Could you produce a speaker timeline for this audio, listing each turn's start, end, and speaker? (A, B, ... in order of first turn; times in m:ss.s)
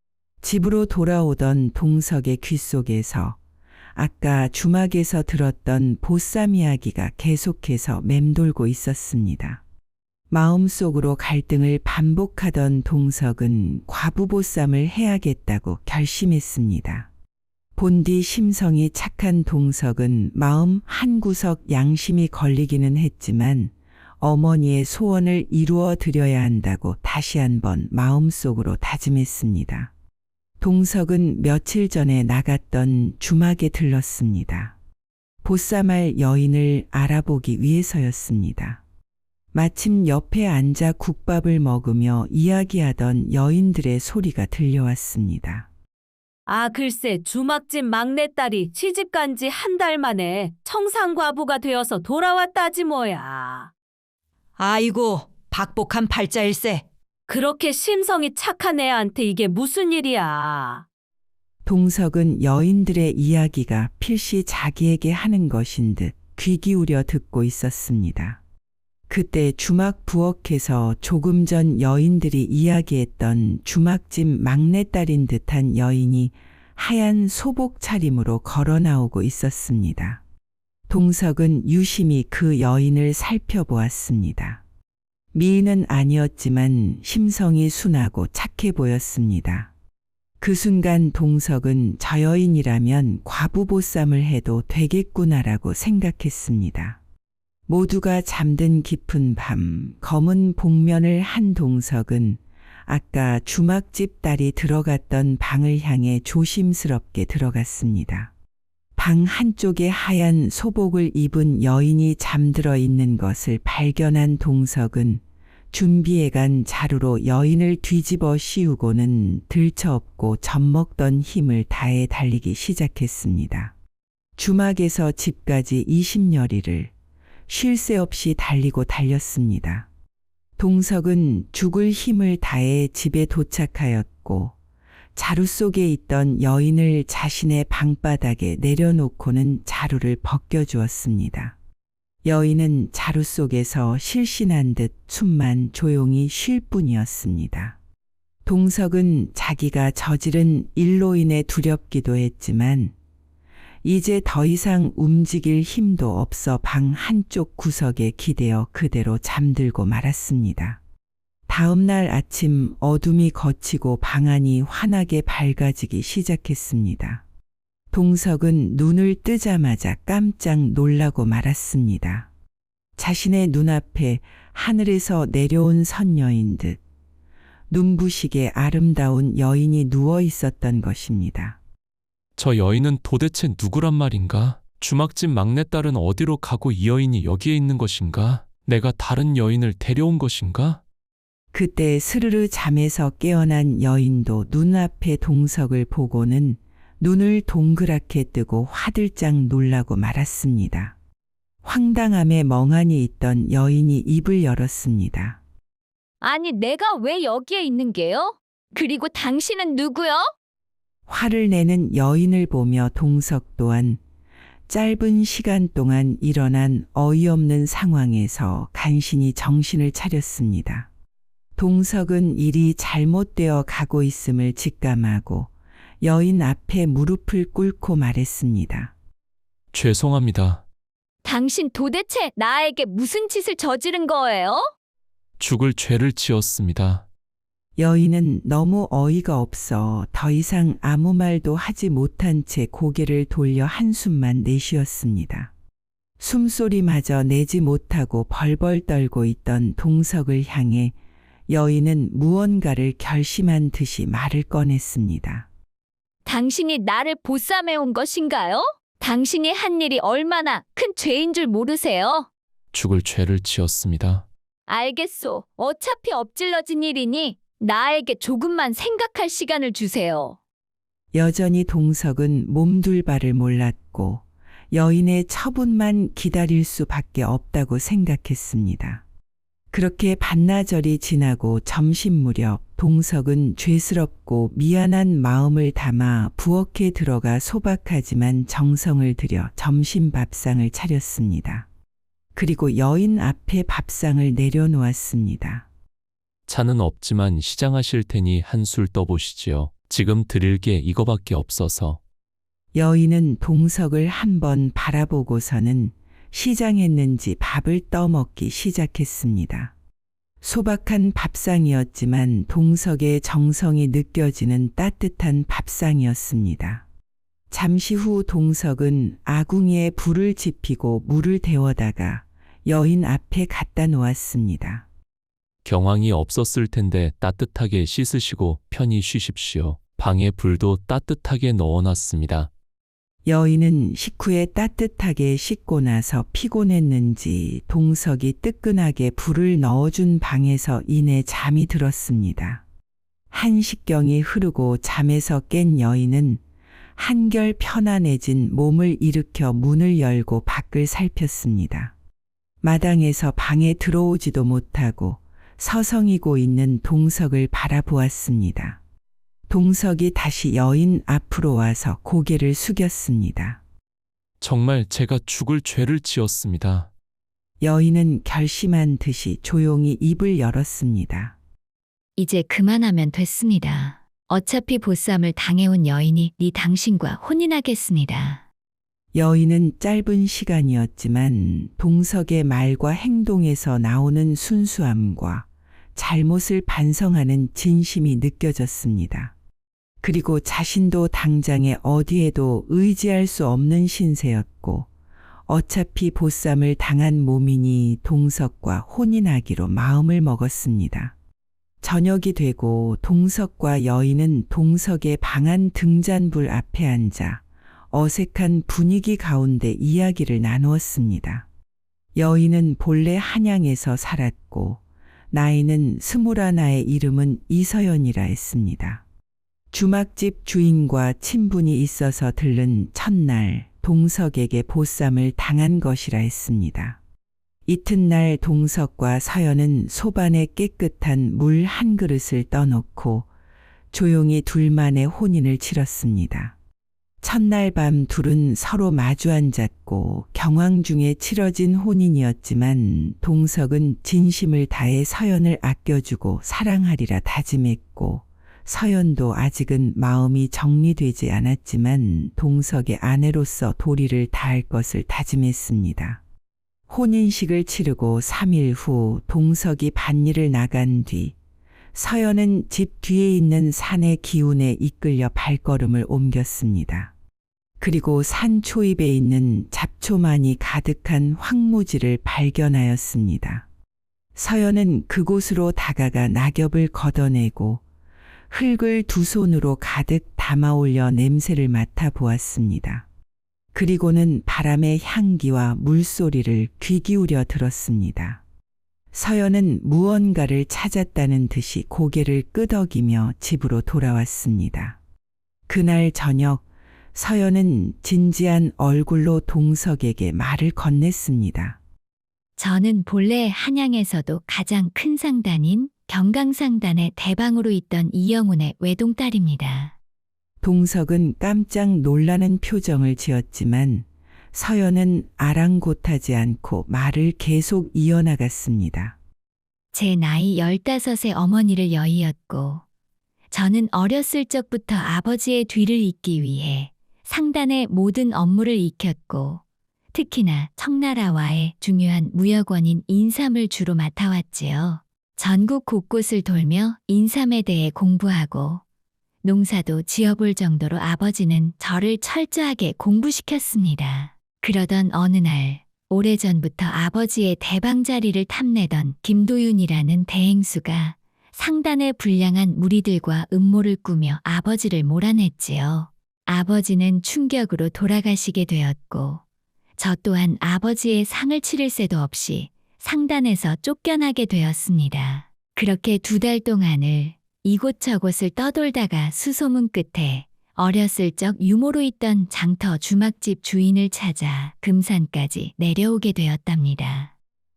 0:00.4-0:03.4 A
0:04.0-0:09.6 A
0:10.3-0:17.1 A
0:17.8-0:29.9 A
0:30.6-0:34.7 A
0:35.4-0:38.8 A
0:39.5-0:45.7 A
0:46.5-0:53.7 B
0:54.6-0:56.9 C
0:57.3-1:00.8 B
1:01.6-1:08.4 A
1:09.1-1:20.2 A
1:20.9-1:24.6 A
1:25.3-1:29.7 A
1:30.4-1:37.0 A
1:37.7-1:48.3 A
1:49.0-1:55.2 A
1:55.7-2:03.7 A
2:04.4-2:06.9 A
2:07.5-2:09.9 A
2:10.6-2:14.6 A
2:15.2-2:21.6 A
2:22.2-2:27.8 A
2:28.4-2:32.9 A
2:33.8-2:40.8 A
2:41.5-2:47.2 A
2:47.9-2:52.3 A
2:53.0-2:56.8 A
2:57.7-3:01.6 A
3:02.4-3:10.8 D
3:11.5-3:20.9 A
3:21.6-3:25.4 A
3:26.2-3:30.3 E
3:31.1-3:34.0 A
3:34.7-3:40.9 A
3:41.6-3:45.5 A
3:46.0-3:48.9 A
3:49.7-3:50.6 D
3:51.2-3:54.7 E
3:55.4-3:57.0 D
3:57.8-4:05.5 A
4:06.2-4:10.9 A
4:11.5-4:15.5 A
4:16.3-4:22.3 E
4:22.7-4:24.3 D
4:24.7-4:30.4 E
4:31.1-4:39.0 A
4:39.7-4:51.7 A
4:52.4-4:55.7 A
4:56.5-5:02.0 D
5:02.7-5:09.7 A
5:10.4-5:16.8 A
5:17.5-5:24.8 A
5:25.6-5:32.5 D
5:33.2-5:42.6 A
5:43.3-5:46.4 A
5:47.0-5:51.9 A
5:52.6-5:58.8 A
5:59.5-6:03.6 A
6:04.4-6:06.9 D
6:07.6-6:11.4 A
6:12.2-6:18.4 E
6:19.1-6:29.3 A
6:30.0-6:34.9 A
6:35.5-6:41.1 A
6:41.8-6:51.5 A
6:52.2-6:54.8 A
6:55.3-6:59.0 A
6:59.7-7:07.0 A
7:07.7-7:13.3 A
7:13.9-7:16.5 A
7:17.2-7:36.2 A
7:36.9-7:41.4 A
7:41.9-7:47.1 A
7:47.8-7:53.7 A
7:54.4-7:57.8 A
7:58.5-8:03.0 A
8:03.7-8:08.4 A
8:09.1-8:15.0 A
8:15.7-8:21.8 A
8:22.6-8:30.0 E
8:30.6-8:39.2 A
8:39.9-8:42.8 E
8:43.5-8:49.6 E
8:50.1-8:58.8 E
8:59.4-9:19.4 E
9:20.0-9:37.3 E